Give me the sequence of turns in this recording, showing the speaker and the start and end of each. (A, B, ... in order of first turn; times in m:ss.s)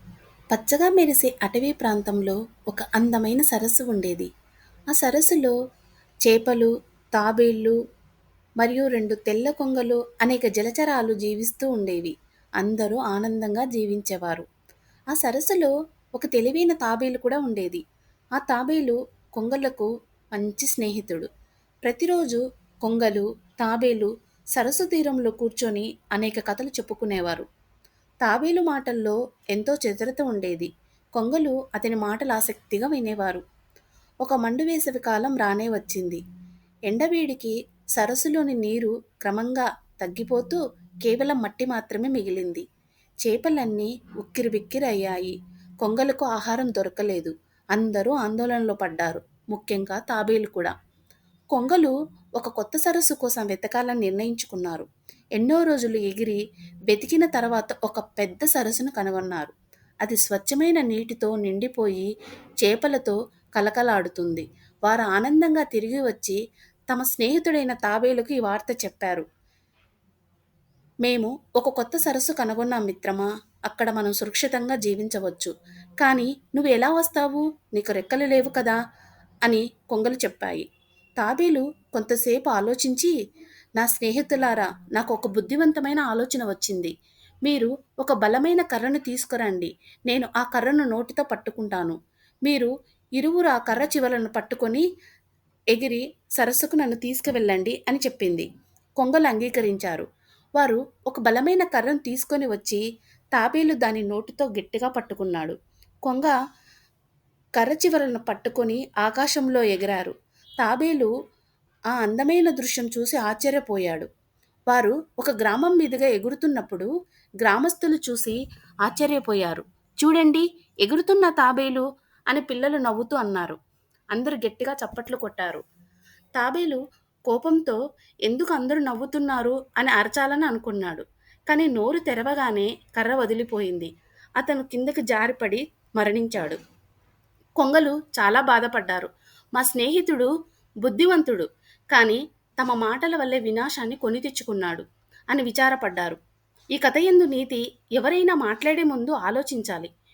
0:00.5-0:04.3 A
0:04.9-0:05.6 A
0:06.2-0:07.8 A
0:08.6-0:14.4 A
0:15.1-0:17.8 A
0:18.4-0:21.3 A
0:21.8-0:27.4 A
0:28.2-0:33.4 A
0:34.2-0:36.2 A
0:36.9-0:42.6 A
0:43.2-0:50.7 A
0:51.5-0:54.8 A
0:55.4-0:59.5 A
1:00.0-1:02.1 A
1:02.6-1:06.4 A
1:06.9-1:09.2 A
1:11.0-1:18.8 A
1:19.4-1:20.6 A
1:21.2-1:23.1 A
1:23.8-1:26.9 A
1:27.4-1:34.8 A
1:35.7-1:38.4 A
1:39.0-1:40.0 A
1:40.6-1:42.8 A
1:43.3-1:45.6 A
1:46.1-1:46.4 A
1:47.6-1:51.1 A
1:51.9-1:54.1 A
1:54.7-1:56.9 A
1:57.4-2:03.6 A
2:04.1-2:05.6 A
2:06.4-2:16.6 A
2:17.6-2:20.3 A
2:20.8-2:26.2 A
2:26.8-2:29.9 A